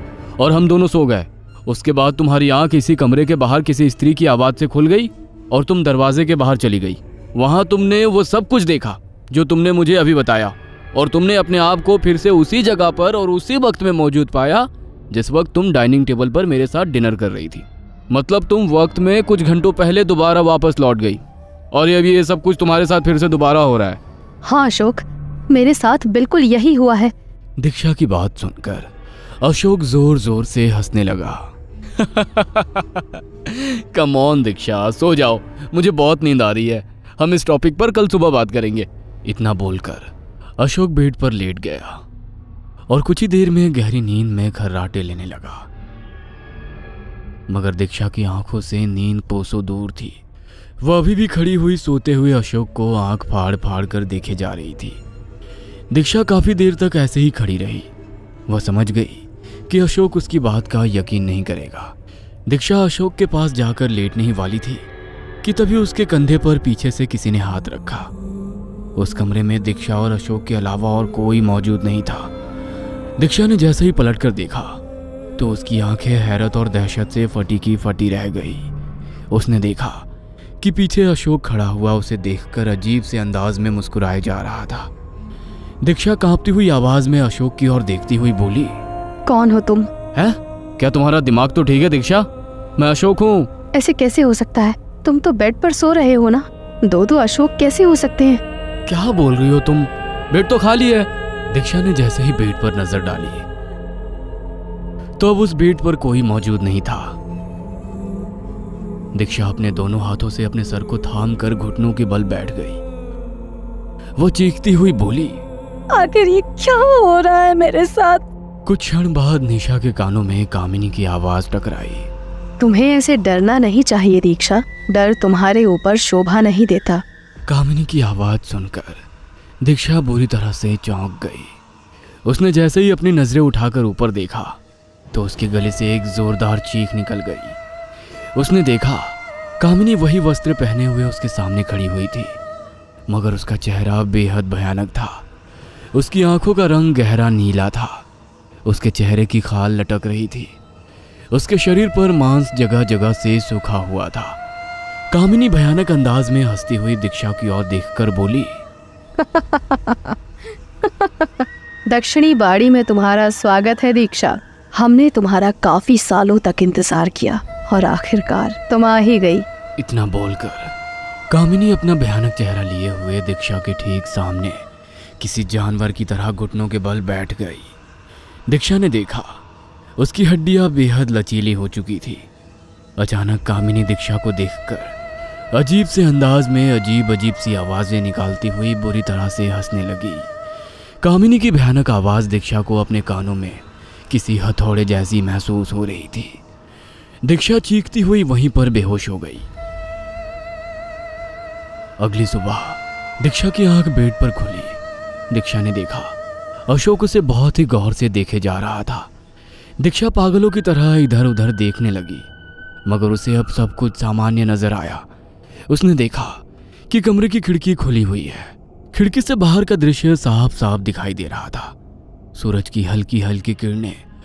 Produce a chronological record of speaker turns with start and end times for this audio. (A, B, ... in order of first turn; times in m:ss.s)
0:00.4-0:24.0 A
0:24.4-0:27.1 B
0:27.6-0:42.0 A
0:42.9-0:45.7 A
0:47.5-0:50.2 A
0:50.8-0:55.0 A
0:55.9-0:57.9 A
0:58.5-1:02.0 A
1:02.5-1:04.9 A
1:05.4-1:08.1 A
1:09.0-1:12.3 A
1:13.2-1:14.8 A
1:15.4-1:18.7 A
1:19.3-1:20.1 A
1:20.6-1:24.9 A
1:25.8-1:28.8 A
1:29.3-1:29.9 B
1:30.1-1:33.5 A
1:33.8-1:38.4 B
1:38.9-1:43.5 A
1:45.2-1:47.2 A
1:49.2-1:52.8 A
1:54.2-1:55.4 A
1:55.9-1:58.3 B
1:58.7-2:02.1 A
2:02.6-2:07.0 B
2:07.5-2:09.0 A
2:09.6-2:11.6 A
2:12.3-2:14.6 A
2:15.1-2:17.6 A
2:18.4-2:22.4 A
2:23.1-2:25.2 A
2:25.9-2:28.1 A
2:28.7-2:30.6 A
2:31.3-2:34.4 A
2:35.1-2:38.6 A
2:39.2-2:40.2 B
2:40.8-2:49.5 B
2:49.8-2:50.7 A
2:51.3-2:54.7 A
2:55.2-2:57.8 A
2:58.5-2:59.4 A
3:00.0-3:02.3 A
3:03.0-3:05.0 A
3:05.6-3:10.3 A
3:11.0-3:16.4 A
3:17.2-3:19.5 A
3:22.0-3:24.8 A
3:25.3-3:26.2 A
3:26.7-3:29.1 A
3:29.8-3:32.3 A
3:32.9-3:35.1 A
3:35.7-3:41.8 A
3:42.4-3:44.0 A